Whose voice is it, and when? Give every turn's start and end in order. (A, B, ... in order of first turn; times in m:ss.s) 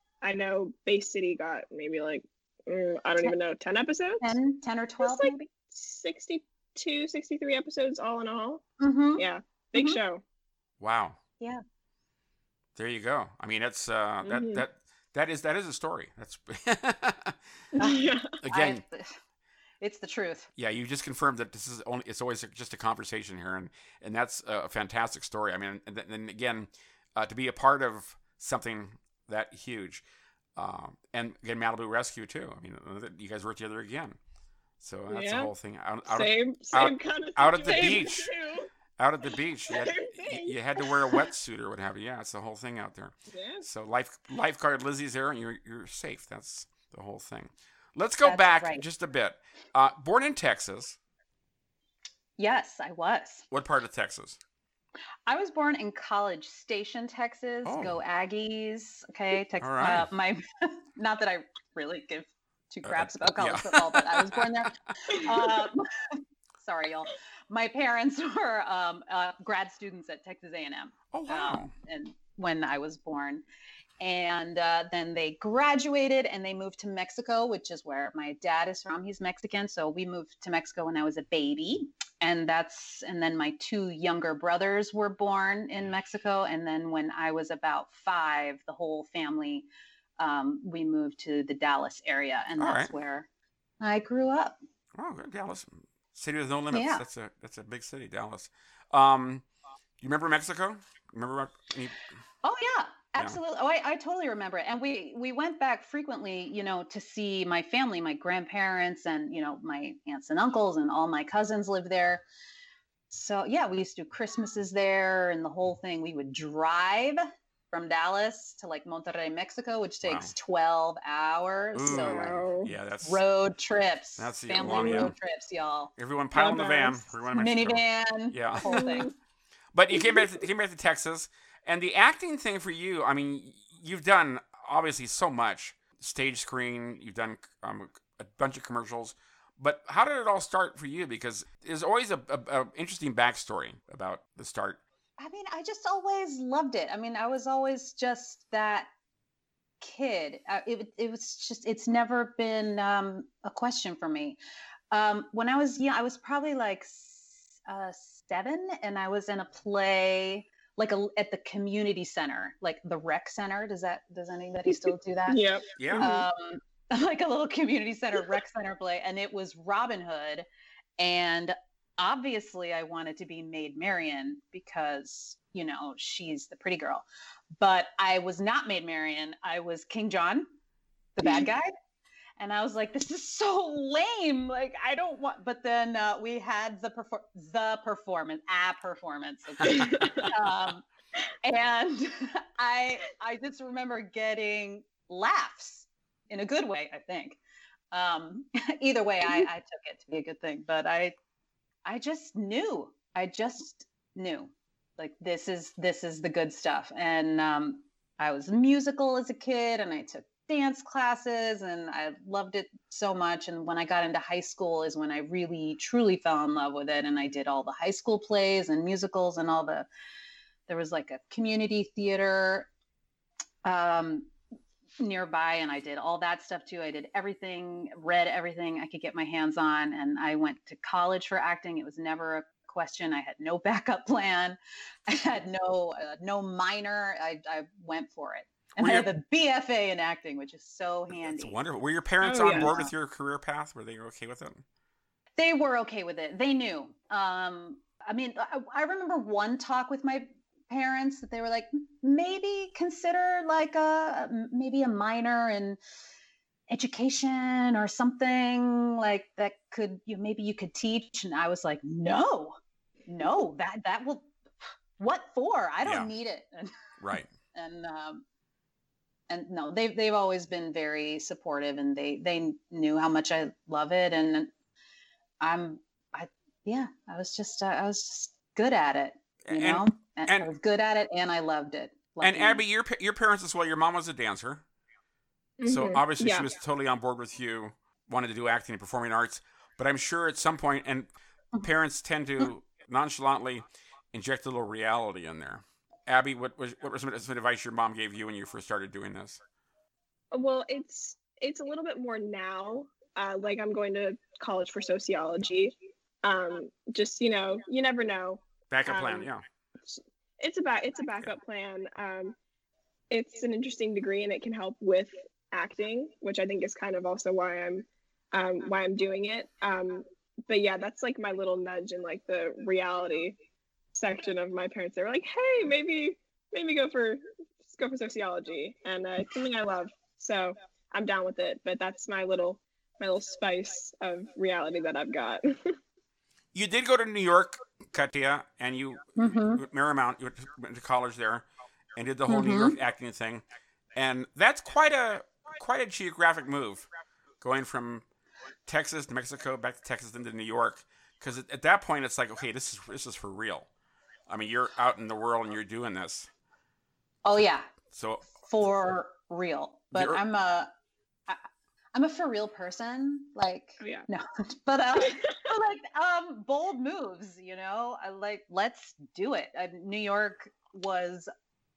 0:00.2-0:04.3 A
0:04.2-0:05.5 B
0:05.0-0:08.6 A
0:08.8-0:10.0 B
0:09.2-0:10.2 A
0:10.8-0:11.2 C
0:12.8-0:17.4 C
0:14.2-0:14.6 A
0:17.8-0:18.3 A
0:17.8-0:19.2 B
0:18.4-0:18.8 C
0:19.8-0:20.5 B
0:20.6-0:30.0 C
0:30.6-0:34.2 C
0:34.8-0:38.3 C
0:35.1-0:35.5 A
0:36.1-0:38.7 A
0:37.7-0:38.0 B
0:39.0-0:51.0 C
0:39.7-0:41.3 A
0:43.3-0:43.6 A
0:48.2-0:48.8 B
0:52.4-0:53.4 B
0:53.5-0:54.4 C
0:55.2-1:13.4 B
0:57.6-0:58.0 C
0:59.6-1:00.1 C
1:02.8-1:04.5 C
1:11.1-1:11.7 C
1:14.0-1:29.7 B
1:30.2-1:33.3 B
1:32.6-1:32.9 C
1:33.8-1:34.6 B
1:34.9-1:39.4 C
1:36.7-1:37.0 B
1:40.0-1:42.0 C
1:42.4-1:52.2 B
1:53.1-2:02.4 B
2:00.0-2:00.3 C
2:01.7-2:03.2 C
2:01.9-2:02.7 A
2:03.0-2:09.1 B
2:04.2-2:05.1 C
2:04.6-2:05.1 A
2:06.0-2:08.9 C
2:08.6-2:09.1 A
2:09.7-2:24.8 C
2:09.9-2:10.3 A
2:25.2-2:28.9 B
2:29.8-2:34.4 B
2:34.9-2:45.4 B
2:44.7-2:46.3 A
2:45.8-2:46.1 C
2:46.0-2:50.4 B
2:51.0-2:57.0 B
2:57.6-3:00.5 B
3:01.2-3:01.7 B
3:02.4-3:10.8 B
3:09.6-3:10.3 A
3:11.4-3:17.4 B
3:17.9-3:21.1 B
3:21.8-3:39.9 B
3:40.7-3:42.7 B
3:43.6-3:44.3 B
3:45.0-4:01.6 B
3:58.8-3:59.1 C
4:01.1-4:04.6 C
4:02.2-4:02.8 A
4:02.5-4:02.9 B
4:05.4-4:15.8 B
4:16.7-4:22.6 B
4:23.1-4:24.3 B
4:25.0-4:26.8 B
4:25.8-4:26.1 C
4:27.0-4:27.3 C
4:27.5-4:28.2 B
4:29.3-4:34.5 B
4:35.4-4:42.6 B
4:39.4-4:40.5 C
4:42.2-4:44.6 C
4:45.6-4:46.5 A
4:45.6-4:59.4 C
5:00.3-5:09.3 A
5:08.7-5:09.4 C
5:09.8-5:12.4 A
5:13.1-5:23.4 A
5:23.9-5:35.8 A
5:36.5-5:46.9 C
5:39.2-5:39.6 B
5:42.3-5:42.7 B
5:47.4-5:48.0 C
5:48.6-5:53.7 C
5:54.3-5:56.3 C
5:57.2-5:57.7 B
5:57.9-5:58.4 C
5:58.4-6:00.7 B
5:59.9-6:00.2 C
6:01.3-6:11.3 B
6:03.8-6:04.1 A